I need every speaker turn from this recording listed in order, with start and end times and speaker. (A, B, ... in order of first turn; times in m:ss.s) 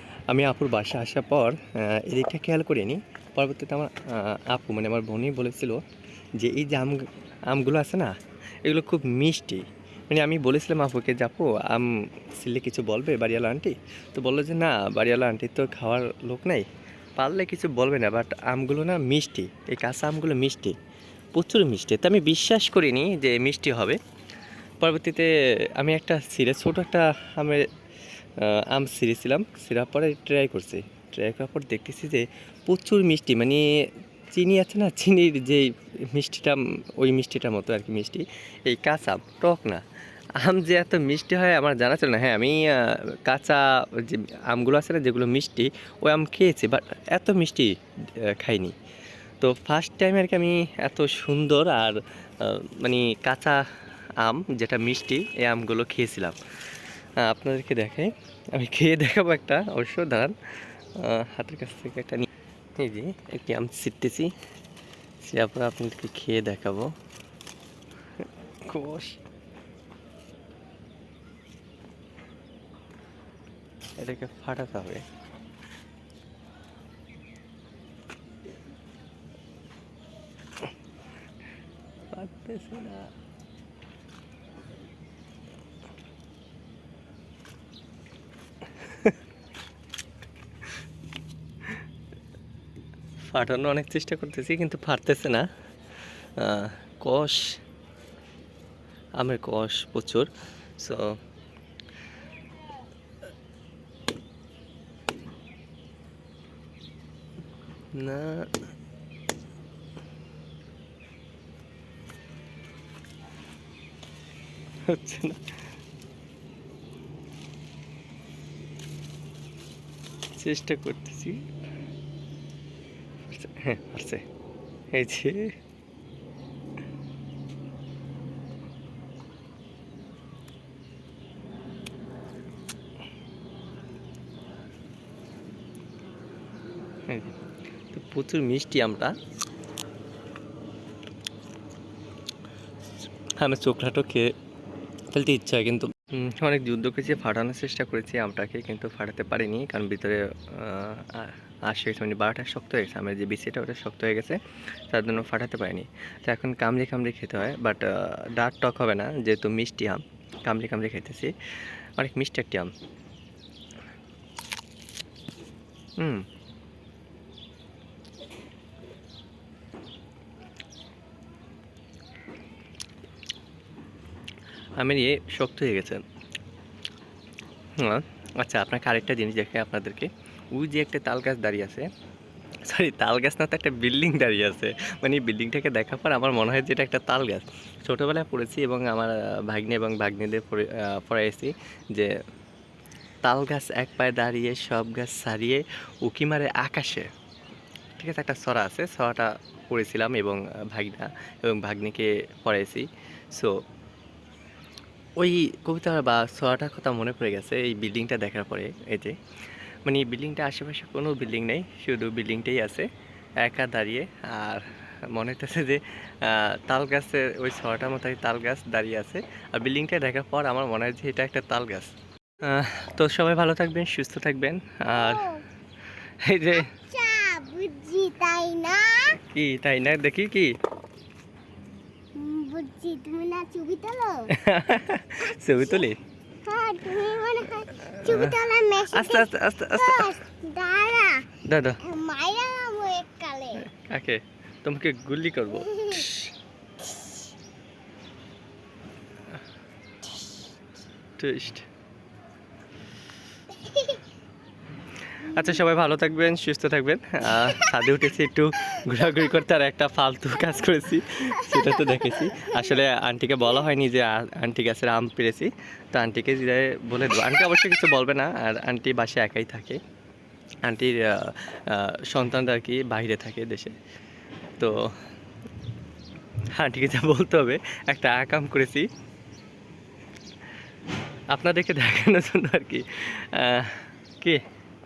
0:00.3-0:05.8 A
0:06.4-0:16.7 A
0:17.2-0:20.8 A
0:21.3-0:24.0 A
0:24.8-0:27.7 A
0:28.4-0:39.8 A
0:40.4-0:48.8 A
0:49.4-0:53.6 A
0:54.2-0:56.4 A
0:57.2-1:00.4 A
1:01.0-1:04.3 A
1:05.2-1:06.9 A
1:08.2-1:09.2 A
1:14.0-1:15.0 A
1:22.1-1:23.1 A
1:28.8-1:29.1 A
1:33.3-1:35.4 A
1:36.4-1:37.5 A
1:39.2-1:40.3 A
1:47.9-1:48.4 A
1:54.9-1:55.5 A
2:00.3-2:01.4 A
2:03.3-2:04.2 A
2:04.9-2:05.5 A
2:17.1-2:17.3 A
2:17.9-2:19.1 A
2:23.4-2:24.3 A
2:25.1-2:41.3 A
2:42.0-2:42.7 A
2:46.0-2:46.2 A
2:54.8-2:56.0 A
2:57.8-3:01.9 A
3:02.6-3:12.1 A
3:13.2-3:17.1 A
3:18.0-3:23.6 A
3:25.2-3:29.2 A
3:29.8-3:32.9 A
3:33.4-3:45.3 A
3:44.9-3:45.4 B
3:46.2-3:46.7 A
3:46.5-3:49.2 B
3:49.3-3:50.5 A
3:52.2-3:54.3 B
3:54.3-3:56.0 A
3:56.4-4:03.6 B
3:57.7-3:58.4 A
3:58.9-4:00.2 A
4:01.4-4:01.8 A
4:03.6-4:06.3 A
4:05.7-4:06.0 B
4:11.2-4:11.6 A
4:13.5-4:14.0 B
4:15.2-4:29.8 A
4:21.4-4:22.0 B
4:30.6-4:33.8 A
4:34.6-4:34.9 A
4:36.5-4:38.9 A
4:41.3-4:44.4 A